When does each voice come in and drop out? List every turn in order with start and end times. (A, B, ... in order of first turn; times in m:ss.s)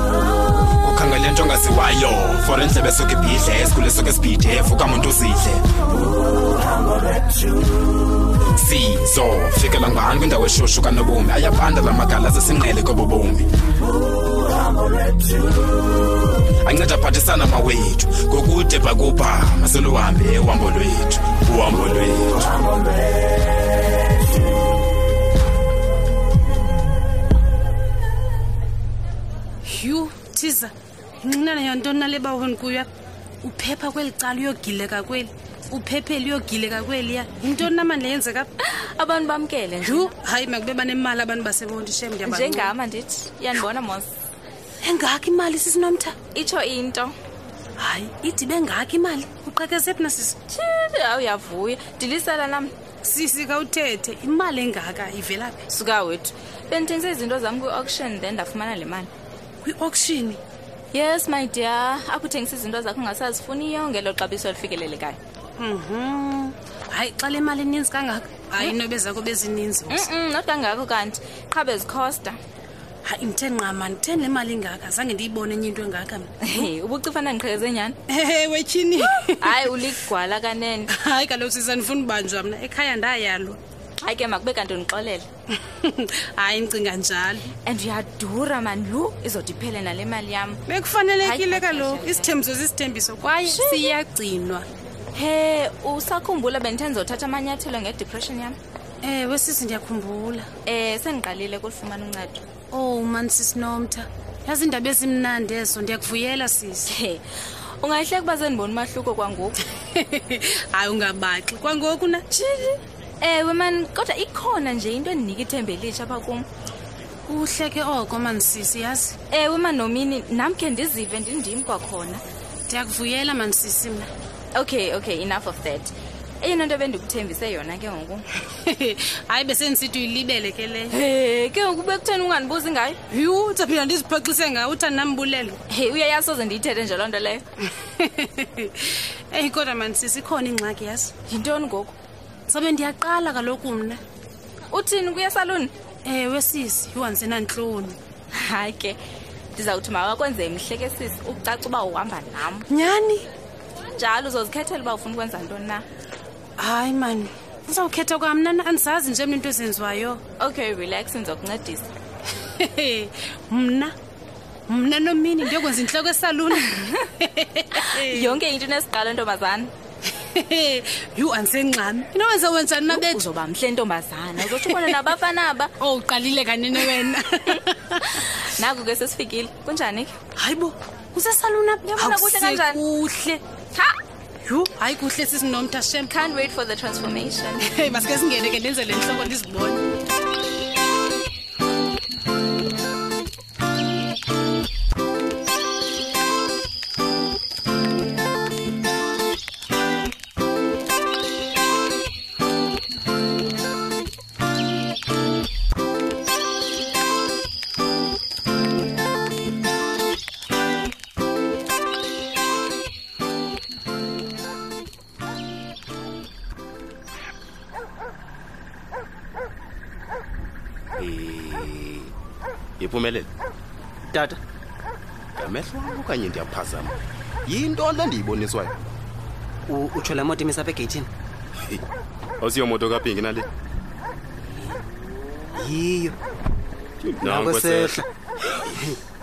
0:00.8-0:05.6 A
0:08.5-0:13.5 A
0:16.6-0:22.6 A
0:29.6-0:30.7 B
0:31.2-0:32.9 B
0:33.4-0:38.5 B
0:38.6-0:40.1 C
0:39.8-0:42.7 B
0:42.2-0:44.1 C
0:44.8-0:46.2 B
0:46.3-0:47.1 C
0:47.8-0:50.4 B
0:50.5-0:52.7 C
0:53.0-0:55.6 B
0:55.7-0:59.1 C
0:59.6-1:00.4 B
1:00.9-1:05.2 C
1:05.6-1:10.1 B
1:09.9-1:12.4 C
1:13.0-1:16.7 B
1:16.4-1:18.0 C
1:18.1-1:19.8 B
1:18.9-1:20.9 C
1:20.9-1:23.6 B
1:24.0-1:25.3 C
1:25.6-1:27.5 B
1:27.6-1:30.6 C
1:30.7-1:34.7 B
1:31.2-1:32.4 C
1:33.5-1:33.9 C
1:35.1-1:38.6 C
1:39.0-1:40.5 B
1:40.6-1:42.4 C
1:42.7-1:46.9 B
1:46.9-1:47.2 C
1:47.8-1:49.6 C
1:49.9-1:52.2 B
1:52.3-1:56.4 C
1:57.3-1:59.2 B
1:59.3-2:02.2 C
2:02.7-2:04.1 B
2:04.5-2:08.3 C
2:08.5-2:10.9 B
2:10.9-2:13.0 C
2:13.1-2:15.6 B
2:15.7-2:17.4 C
2:17.8-2:21.1 B
2:21.3-2:21.9 C
2:22.5-2:24.0 B
2:24.7-2:25.7 C
2:26.0-2:28.0 B
2:28.3-2:29.0 C
2:29.5-2:32.7 C
2:32.7-2:33.2 B
2:33.9-2:35.8 C
2:36.6-2:40.2 B
2:40.4-2:41.9 C
2:42.5-2:43.9 B
2:44.7-2:48.3 B
2:46.6-2:47.0 C
2:47.7-2:49.7 C
2:50.1-2:53.2 B
2:52.9-2:55.7 C
2:54.4-2:55.1 B
2:55.8-2:58.0 B
2:56.8-3:00.1 C
3:00.4-3:03.4 B
3:01.9-3:02.8 C
3:04.4-3:06.1 B
3:06.1-3:07.7 C
3:07.6-3:09.8 B
3:41.0-3:42.1 D
3:42.8-3:43.3 D
3:44.1-3:44.4 E
3:45.4-3:46.9 D
3:47.4-3:48.7 D
3:49.7-3:51.1 E
3:52.4-3:53.5 D
3:55.5-3:56.2 E
3:57.0-3:58.0 D
3:57.2-3:58.0 E